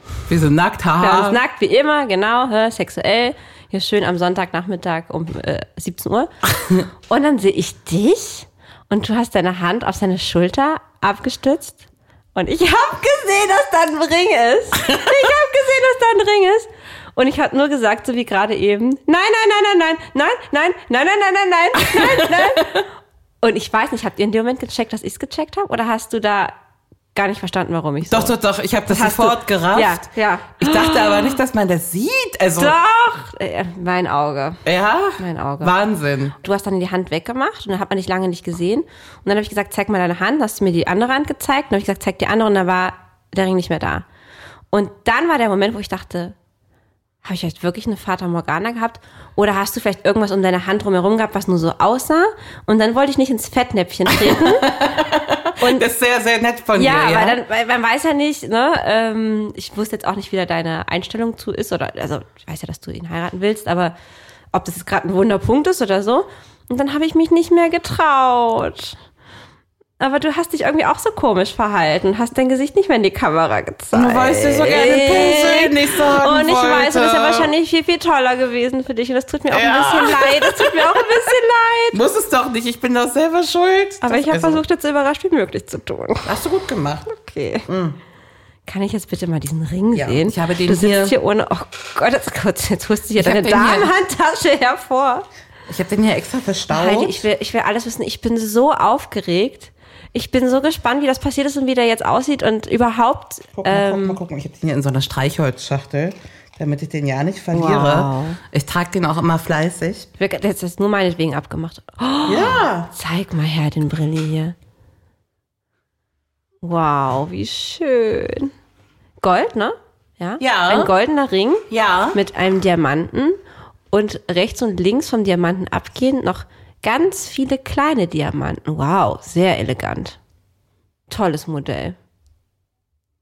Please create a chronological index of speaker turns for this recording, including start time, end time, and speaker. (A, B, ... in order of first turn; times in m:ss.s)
0:00.3-0:01.4 A
0:01.0-0:06.3 B
0:07.0-0:22.8 B
0:21.8-0:22.8 A
0:23.4-0:26.6 B
0:27.1-0:28.4 B
0:28.1-0:30.1 A
0:28.9-0:31.4 B
0:30.6-0:32.8 A
0:32.6-0:34.6 B
0:34.6-0:36.3 A
0:35.2-0:35.7 B
0:36.4-0:44.0 B
0:44.7-0:46.3 B
0:47.2-0:55.1 B
0:54.1-0:57.4 A
0:55.6-0:55.9 B
0:56.8-1:04.0 B
1:04.5-1:09.0 B
1:10.0-1:22.0 B
1:13.9-1:17.5 A
1:19.5-1:21.0 A
1:21.9-1:24.6 A
1:24.0-1:26.3 B
1:26.2-1:27.0 A
1:27.1-1:27.7 B
1:27.7-1:28.0 A
1:28.6-1:35.2 B
1:29.9-1:31.2 A
1:33.2-1:33.9 A
1:35.7-1:37.2 A
1:36.7-1:44.2 B
1:43.6-1:50.1 A
1:47.5-1:48.4 B
1:50.2-1:54.5 B
1:52.2-1:52.9 A
1:56.6-1:58.5 B
1:59.2-2:03.4 B
2:00.4-2:00.9 A
2:01.7-2:02.2 A
2:03.9-2:10.2 B
2:11.1-2:12.0 B